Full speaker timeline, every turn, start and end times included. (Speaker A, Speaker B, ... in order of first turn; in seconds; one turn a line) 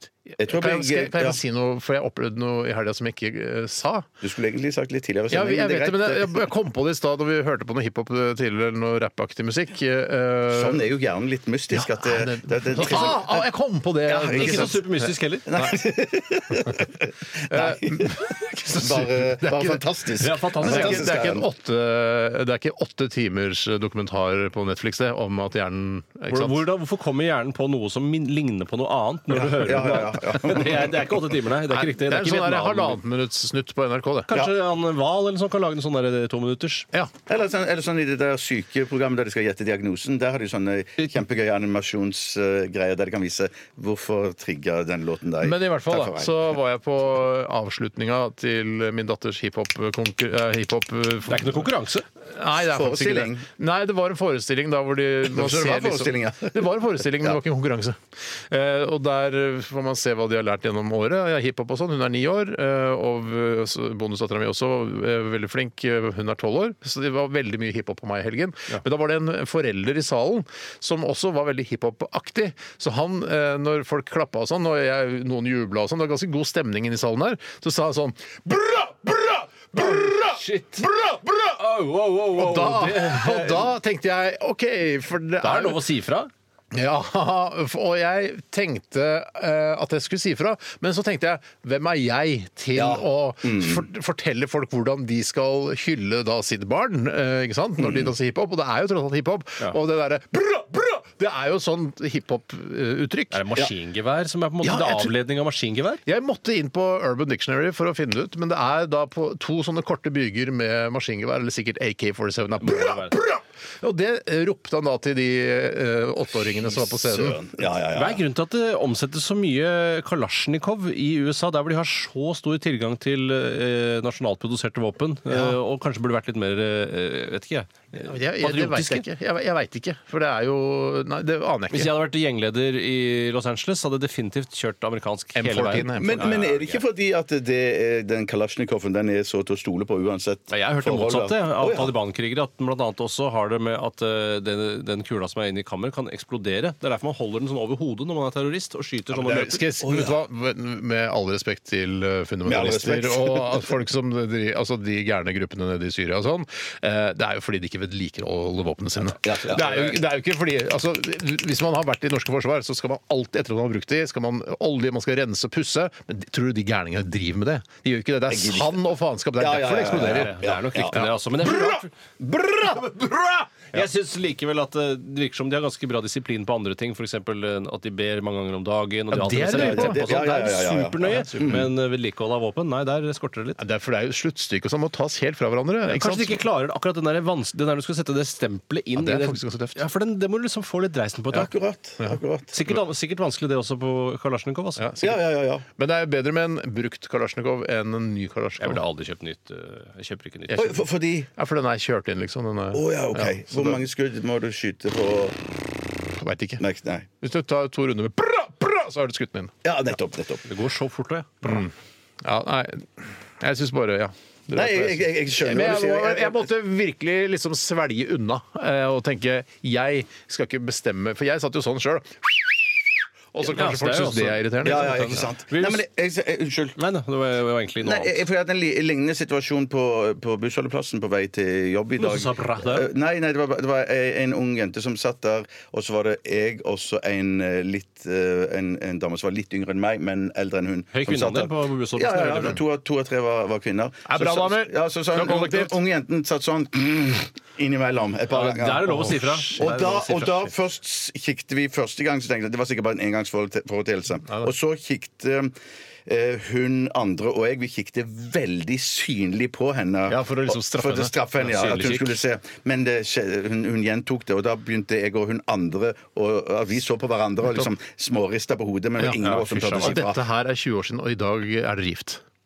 Speaker A: 0.3-4.1
Speaker B: 0.4-1.4
Speaker B: 4.2-6.5
Speaker A: 5.3-10.8
Speaker B: 10.5-13.5
Speaker A: 11.7-14.9
Speaker B: 14.1-14.9
Speaker C: 14.3-15.4
Speaker B: 15.4-21.5
Speaker A: 17.5-19.8
Speaker C: 20.2-21.1
Speaker A: 20.6-26.6
Speaker C: 26.3-33.0
Speaker B: 29.3-31.2
Speaker A: 31.7-34.3
Speaker C: 34.3-36.9
Speaker B: 37.3-46.4
Speaker A: 45.4-51.7
Speaker C: 51.3-52.0
Speaker A: 52.3-81.6
Speaker B: 52.6-53.5
Speaker B: 55.3-56.7
Speaker C: 79.8-80.9
Speaker C: 81.4-83.7
Speaker A: 82.3-85.8
Speaker C: 85.4-86.3
Speaker A: 86.7-103.5
Speaker B: 92.7-93.8
Speaker B: 97.8-98.1
Speaker C: 103.3-106.0
Speaker A: 104.6-105.1
Speaker A: 106.0-117.4
Speaker C: 112.6-113.2
Speaker B: 116.6-118.2
Speaker C: 117.9-129.1
Speaker A: 128.0-131.9
Speaker C: 131.7-136.8
Speaker A: 135.3-136.4
Speaker B: 135.9-141.9
Speaker C: 140.5-149.6
Speaker A: 149.2-170.4
Speaker B: 149.3-150.2
Speaker B: 152.4-153.7
Speaker B: 159.2-160.0
Speaker B: 168.3-168.8
Speaker B: 169.4-171.1
Speaker C: 169.9-171.9
Speaker A: 170.9-171.8
Speaker B: 172.2-173.5
Speaker C: 173.7-183.6
Speaker A: 179.1-180.0
Speaker B: 179.5-181.7
Speaker A: 181.1-181.6
Speaker A: 183.6-186.4
Speaker C: 185.9-191.5
Speaker A: 188.9-189.8
Speaker B: 191.3-192.5
Speaker C: 192.5-194.9
Speaker A: 194.8-198.8
Speaker B: 195.0-195.6
Speaker C: 198.6-200.8
Speaker A: 200.5-200.8
Speaker B: 200.6-201.3
Speaker A: 201.4-203.8
Speaker B: 202.7-205.4
Speaker A: 206.2-206.6
Speaker B: 206.6-207.1
Speaker A: 207.2-209.6
Speaker B: 209.6-210.5
Speaker C: 210.4-211.7
Speaker A: 211.4-225.3
Speaker B: 214.6-216.4
Speaker C: 223.4-225.8
Speaker B: 224.6-226.8
Speaker C: 226.8-228.2
Speaker B: 227.8-255.6
Speaker C: 232.0-232.9
Speaker C: 240.9-242.6
Speaker A: 244.1-245.8
Speaker C: 248.3-250.5
Speaker B: 256.1-270.2
Speaker A: 260.1-261.1
Speaker C: 261.4-262.2
Speaker C: 269.2-270.0
Speaker A: 269.7-272.2